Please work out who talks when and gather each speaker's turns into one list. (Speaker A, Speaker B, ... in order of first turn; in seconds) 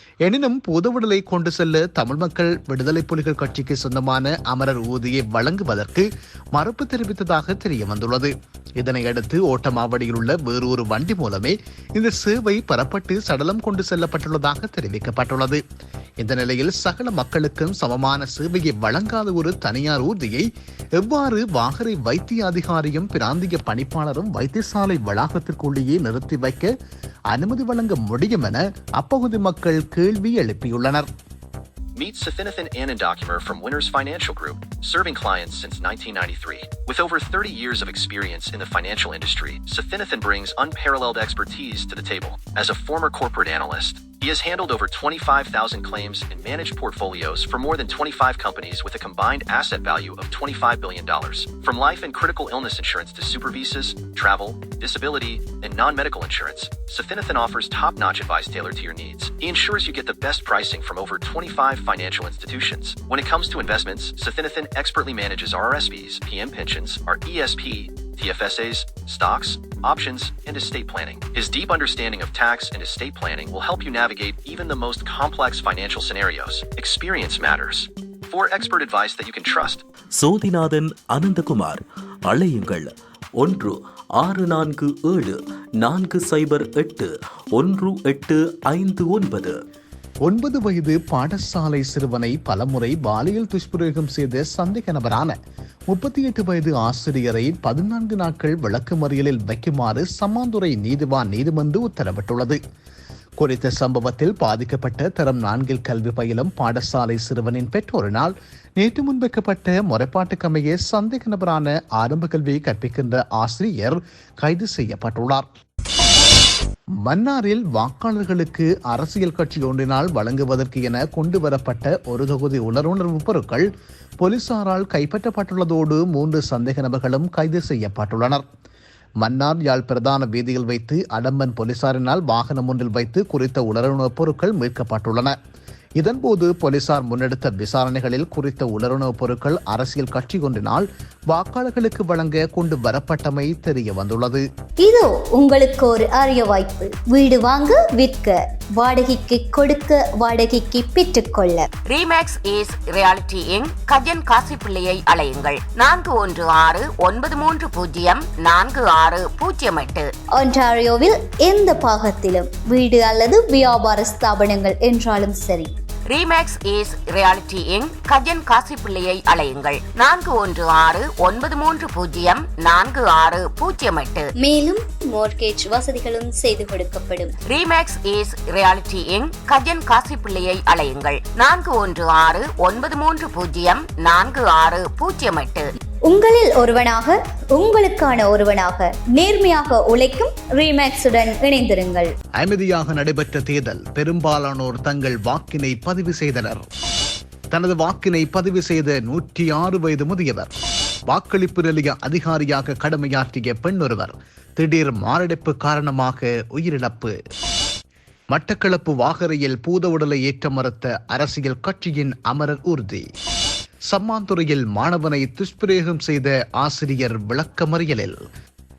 Speaker A: 0.2-15.6, 16.2-20.4, 21.0-26.7, 27.3-31.1, 90.2-95.3, 95.9-102.6, 103.4-115.5, 117.0-123.7, 124.2-128.4, 129.2-135.4, 136.0-144.4, 192.4-196.7, 197.5-200.5, 201.1-207.2, 208.3-213.1, 213.9-218.2
Speaker B: 31.9-79.8
Speaker C: 80.2-89.6
Speaker D: 144.8-151.7, 160.4-165.7, 174.4-177.3, 186.1-192.1
Speaker E: 151.9-160.1, 166.1-174.3, 177.5-185.7